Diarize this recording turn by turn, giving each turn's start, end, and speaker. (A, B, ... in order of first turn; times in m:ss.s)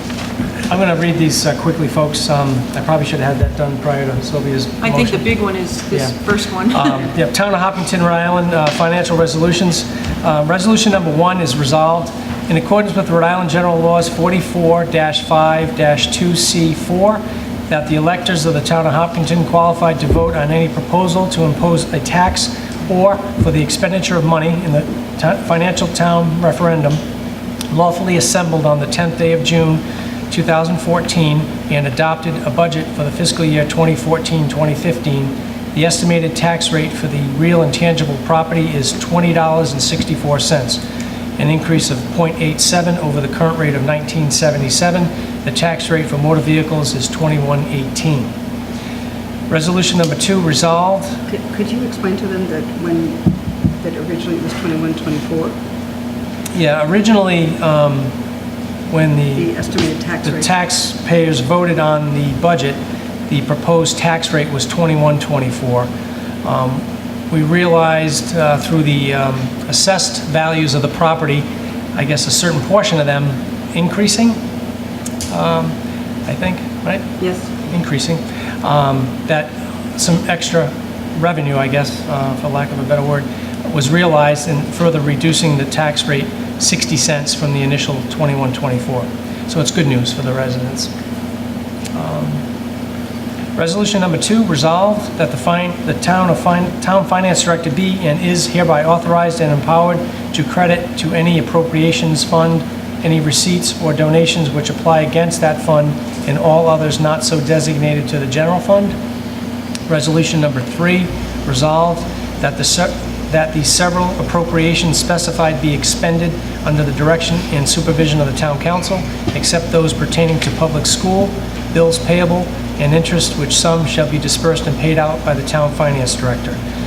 0:00.7-0:05.2 A
0:04.8-0:07.1 B
0:05.9-0:06.1 A
0:06.7-0:27.0 A
0:27.7-0:40.8 A
0:41.4-0:48.3 A
0:49.5-0:51.1 A
0:51.3-0:53.2 C
0:53.8-0:55.5 C
0:56.5-0:58.1 A
0:58.9-0:59.5 A
0:59.3-1:00.5 C
1:00.2-1:05.9 A
1:06.4-1:14.4 A
1:15.3-1:15.7 A
1:16.2-1:17.1 A
1:17.2-1:17.5 C
1:17.7-1:30.9 A
1:31.9-1:32.4 A
1:33.6-1:48.9 A
1:49.9-2:06.6 A